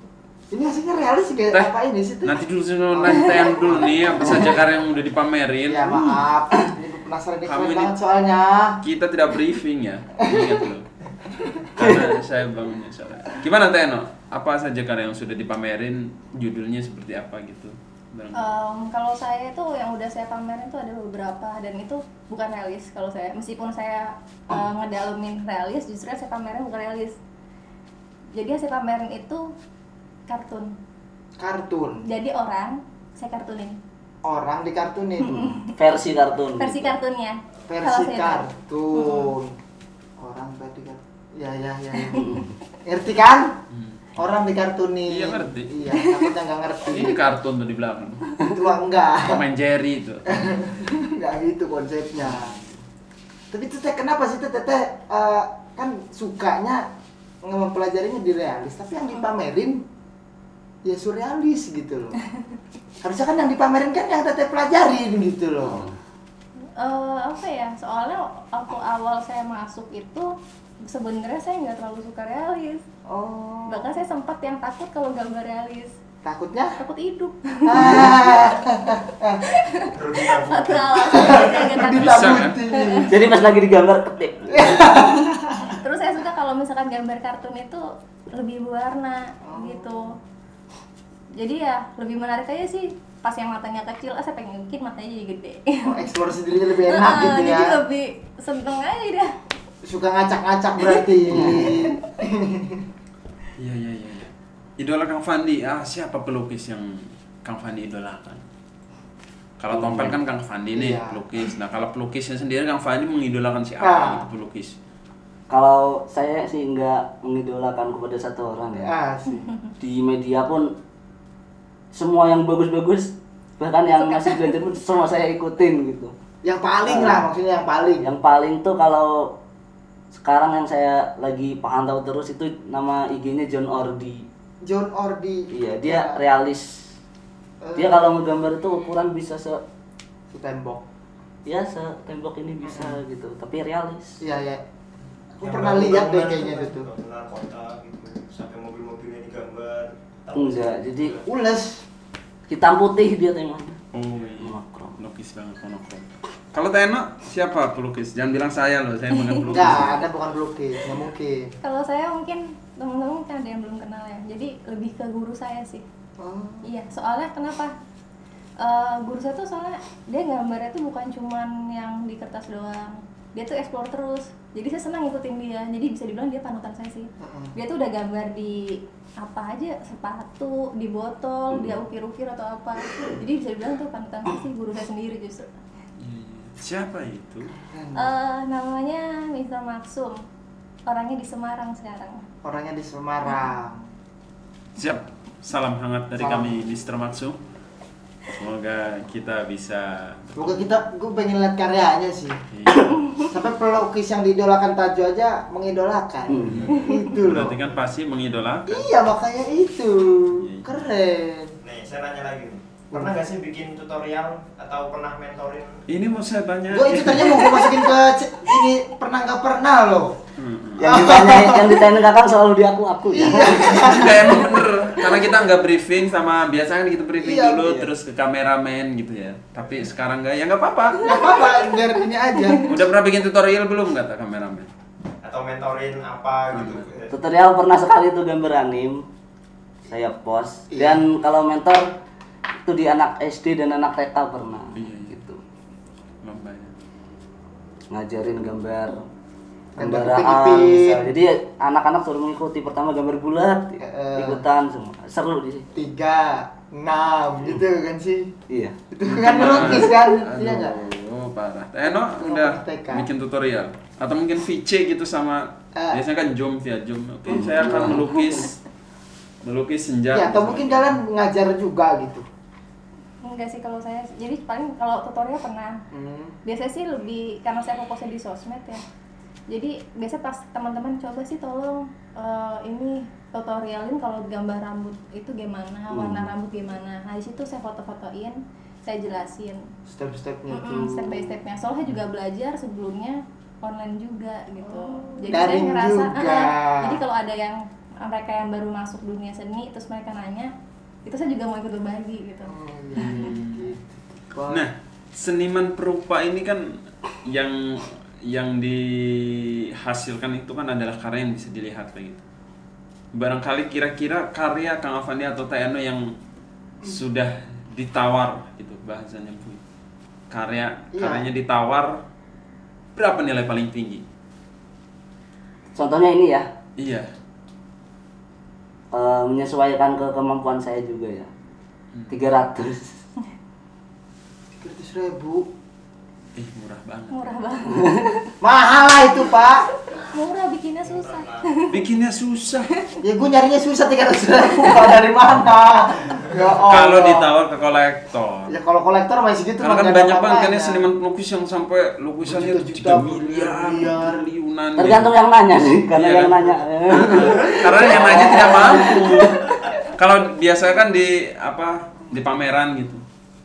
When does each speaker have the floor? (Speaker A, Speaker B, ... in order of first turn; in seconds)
Speaker A: 0.5-4.5, 5.7-8.8, 10.2-10.6, 31.4-32.0, 34.2-35.4, 37.7-39.5, 40.2-42.3, 42.9-43.6, 44.1-47.2, 48.5-49.4, 50.2-52.5, 53.5-56.8, 57.4-59.8, 60.8-62.2, 63.0-65.9, 73.1-73.9, 76.2-76.8, 77.7-79.5, 81.0-83.3, 84.5-85.8, 89.4-90.1, 95.8-97.8, 99.8-102.9, 110.7-111.2, 113.8-114.2, 118.8-119.5, 126.4-128.1, 134.6-136.2, 137.6-138.2, 140.3-140.8, 142.6-143.0, 144.2-144.6, 145.4-146.9, 151.2-151.8, 159.5-161.5, 166.2-166.7, 177.2-177.5, 187.5-188.1, 192.4-193.8, 196.2-196.5, 200.3-202.4, 203.3-207.6, 208.7-211.5, 216.7-220.2, 220.8-221.9, 223.1-224.5, 227.2-227.9, 231.0-232.7, 240.7-241.0, 249.8-251.1, 253.8-254.4, 255.7-258.3, 258.9-260.7, 262.2-263.1, 265.7-266.0, 270.1-272.2, 275.9-276.4, 289.9-291.4, 294.6-297.0, 302.5-304.6, 320.9-321.2, 334.6-335.5, 338.4-339.6, 343.0-347.3, 348.5-350.8, 352.2-354.2, 357.9-358.7
Speaker B: 2.2-6.2, 7.4-7.9, 8.8-10.9, 11.8-18.5, 43.7-44.1, 45.1-45.7, 46.9-48.3, 49.2-50.5, 52.2-52.6, 81.9-82.6, 103.6-108.4, 109.6-114.7, 153.9-160.1, 186.0-187.5, 194.8-197.4, 198.3-200.5, 202.5-203.0, 207.2-208.9, 210.3-210.8, 215.9-217.8, 220.4-220.8, 223.6-231.2, 232.6-234.7, 236.5-236.9, 244.8-245.2, 246.2-246.7, 259.1-268.6, 269.4-270.9, 303.0-303.8, 304.5-312.2, 313.1-316.0, 316.8-319.6, 320.3-322.0, 322.9-324.0, 326.8-327.1, 331.9-332.2, 336.4-337.4, 341.7-342.7, 346.6-348.6, 349.6-355.1, 355.9-363.0
Speaker C: 18.3-27.1, 28.3-29.5, 30.3-30.7, 32.0-33.8, 35.2-35.7, 36.6-39.3, 42.0-42.4, 45.9-46.2, 66.8-70.3, 70.8-72.8, 73.7-75.9, 76.8-78.4, 79.5-83.1, 85.7-90.1, 91.3-96.0, 96.8-99.3, 119.3-119.7, 123.9-124.7, 159.2-159.4, 161.6-165.8, 166.6-167.7, 168.6-185.5, 187.9-190.2, 190.9-192.2, 206.7-207.0, 232.4-232.6, 273.2-275.8, 276.4-278.8, 279.5-289.6, 290.5-300.5, 301.0-303.3, 337.1-337.8, 340.0-341.8
Speaker D: 35.2-37.0, 42.1-42.5, 65.7-66.0, 83.1-84.8, 101.3-101.8, 109.7-110.2, 115.5-118.9, 119.8-120.7, 121.9-126.1, 126.9-127.2, 128.0-129.3, 130.1-134.2, 135.5-136.7, 137.8-139.6, 141.4-144.2, 150.3-151.2, 152.5-153.8, 154.4-154.9, 181.5-181.8, 206.3-206.6, 220.8-223.9, 237.1-239.0, 239.9-241.9, 242.6-245.4, 247.9-249.0, 249.8-255.7, 258.5-258.8, 267.3-268.0, 285.9-286.3, 325.7-326.5, 328.9-331.3, 332.1-332.9, 337.8-338.2, 354.8-359.8
Speaker E: 79.9-81.6, 145.4-151.2, 211.6-215.8, 235.2-237.1, 340.8-341.6